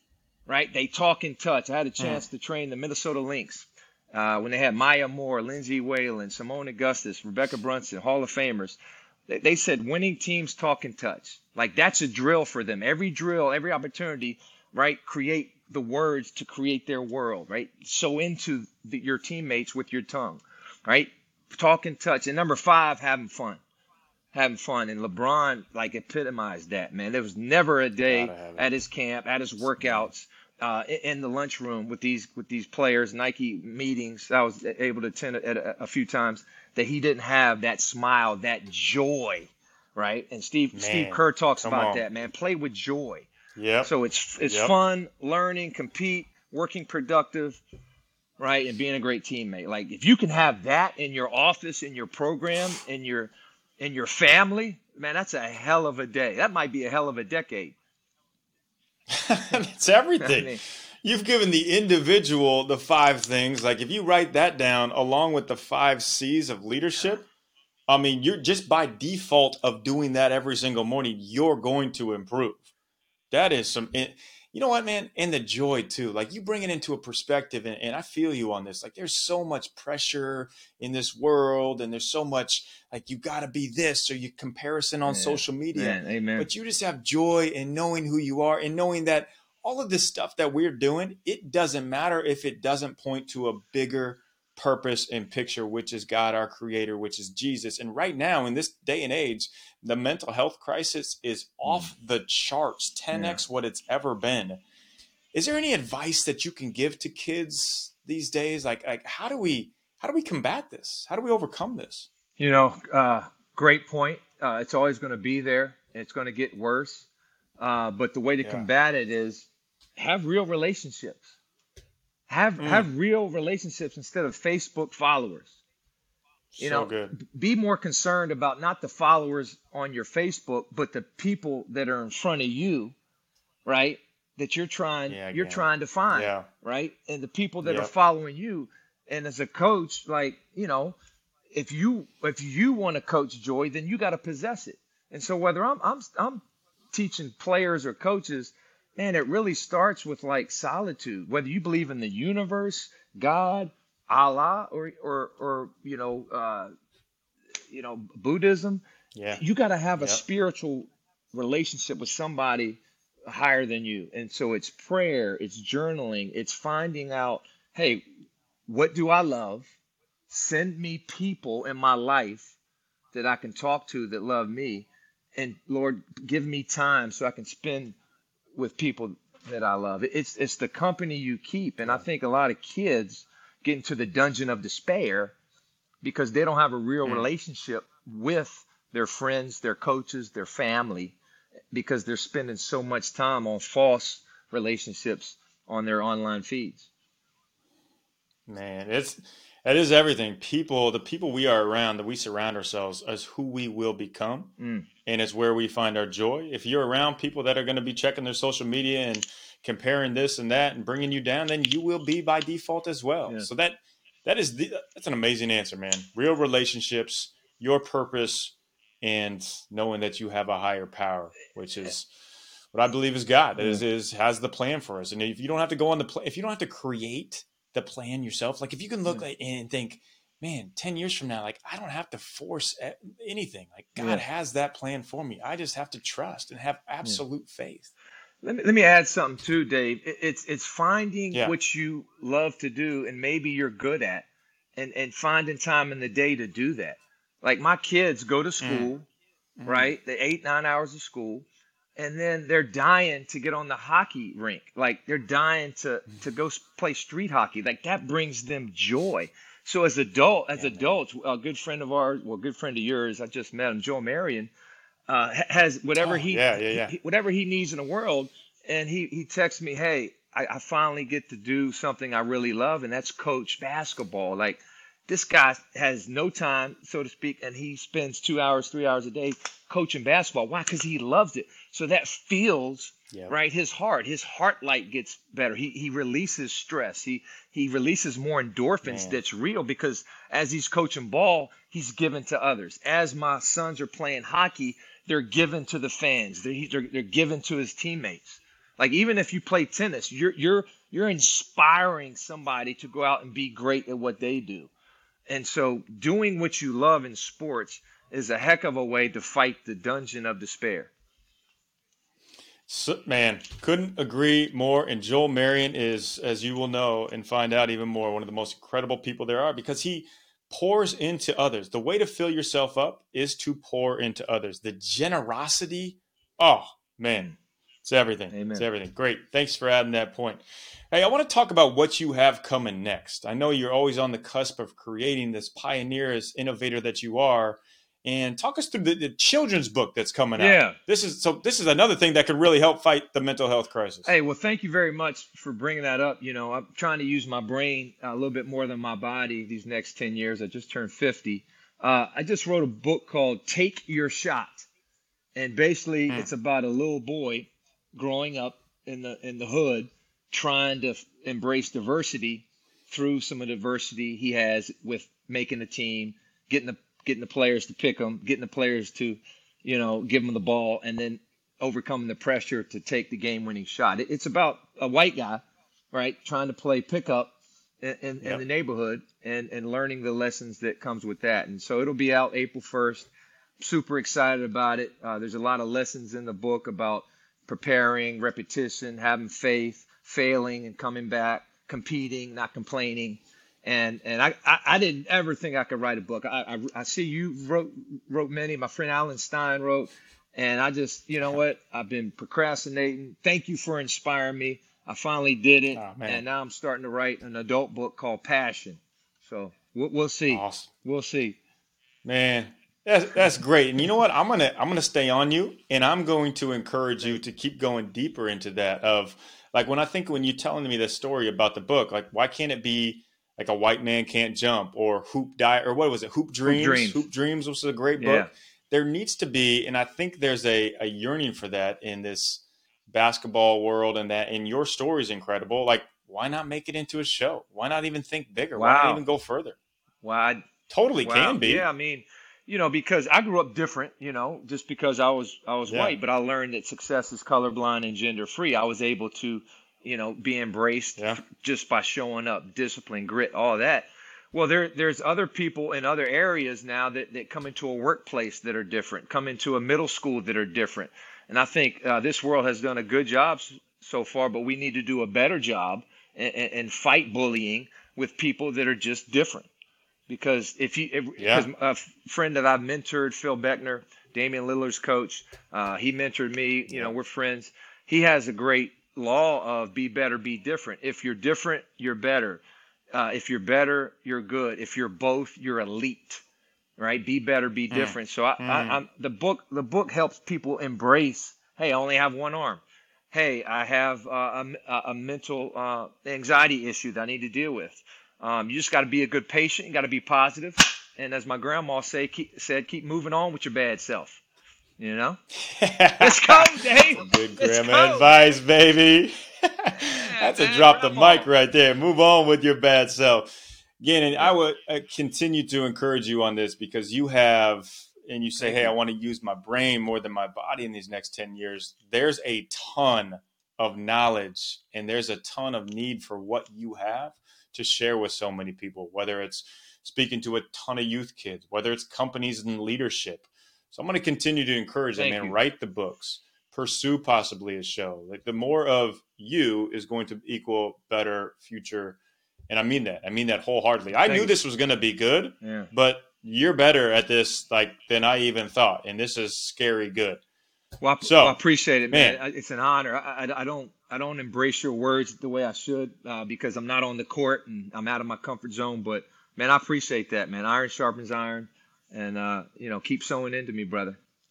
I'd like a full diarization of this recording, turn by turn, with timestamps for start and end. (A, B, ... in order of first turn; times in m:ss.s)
0:00.5-0:23.6 A
0:24.3-0:43.3 A
0:28.1-0:28.7 B
0:29.8-0:30.1 B
0:40.7-0:42.0 B
0:43.6-0:43.9 B
0:43.8-0:47.6 A
0:44.5-0:44.7 B
0:48.4-0:57.8 A
0:59.1-1:07.3 B
1:00.2-1:00.6 A
1:07.9-1:12.7 B
1:13.3-1:44.6 B
1:25.1-1:26.5 A
1:43.1-1:43.4 A
1:45.3-1:52.1 B
1:52.4-1:57.1 A
1:57.6-2:01.4 A
2:02.3-2:05.6 A
2:02.6-2:02.9 B
2:06.5-2:07.2 B
2:06.6-2:13.0 A
2:13.7-2:21.0 A
2:15.1-2:16.5 B
2:17.6-2:17.9 B
2:21.5-2:36.7 A
2:37.7-2:38.8 A
2:39.1-2:39.4 B
2:39.4-2:48.0 A
2:48.7-2:49.7 A
2:50.3-2:52.5 A
2:53.1-2:58.0 A
2:58.6-3:05.3 A
3:06.0-3:11.2 A
3:11.7-3:16.9 A
3:18.5-3:24.5 B
3:24.6-3:24.9 A
3:25.1-3:42.1 B
3:42.7-3:57.9 B
3:43.6-3:43.8 A
3:54.0-3:54.2 A
3:58.4-4:09.1 A
4:08.6-4:08.9 B
4:09.6-4:10.0 B
4:09.6-4:24.5 A
4:20.6-4:20.9 B
4:25.1-5:04.7 A
4:26.0-4:26.9 B
4:48.8-4:49.2 B
5:05.3-5:10.9 A
5:12.7-5:44.1 B
5:28.3-5:28.6 A
5:40.4-5:40.8 A
5:44.0-5:54.7 A
5:55.4-6:23.1 A
6:23.6-6:51.4 A
6:45.8-6:46.2 B
6:50.3-6:50.7 B
6:52.0-7:19.6 B
7:06.4-7:07.0 A
7:08.0-7:08.3 A
7:18.6-7:19.0 A
7:20.0-7:20.4 A
7:20.7-7:21.7 B
7:21.0-7:49.5 A
7:25.7-7:25.9 B
7:31.0-7:31.2 B
7:50.1-8:02.4 A
7:51.2-7:51.5 B
8:02.9-8:06.2 A
8:06.8-8:24.2 A
8:07.7-8:08.8 B
8:24.8-8:25.2 A
8:25.4-8:33.3 B
8:26.0-8:28.1 A
8:29.8-8:31.3 A
8:33.8-9:02.0 B
8:38.4-8:38.7 A
8:55.0-8:55.4 A
9:02.5-9:10.2 B
9:04.1-9:04.3 A
9:05.4-9:05.7 A
9:10.8-9:24.0 A
9:11.0-9:11.4 B
9:11.9-9:12.2 B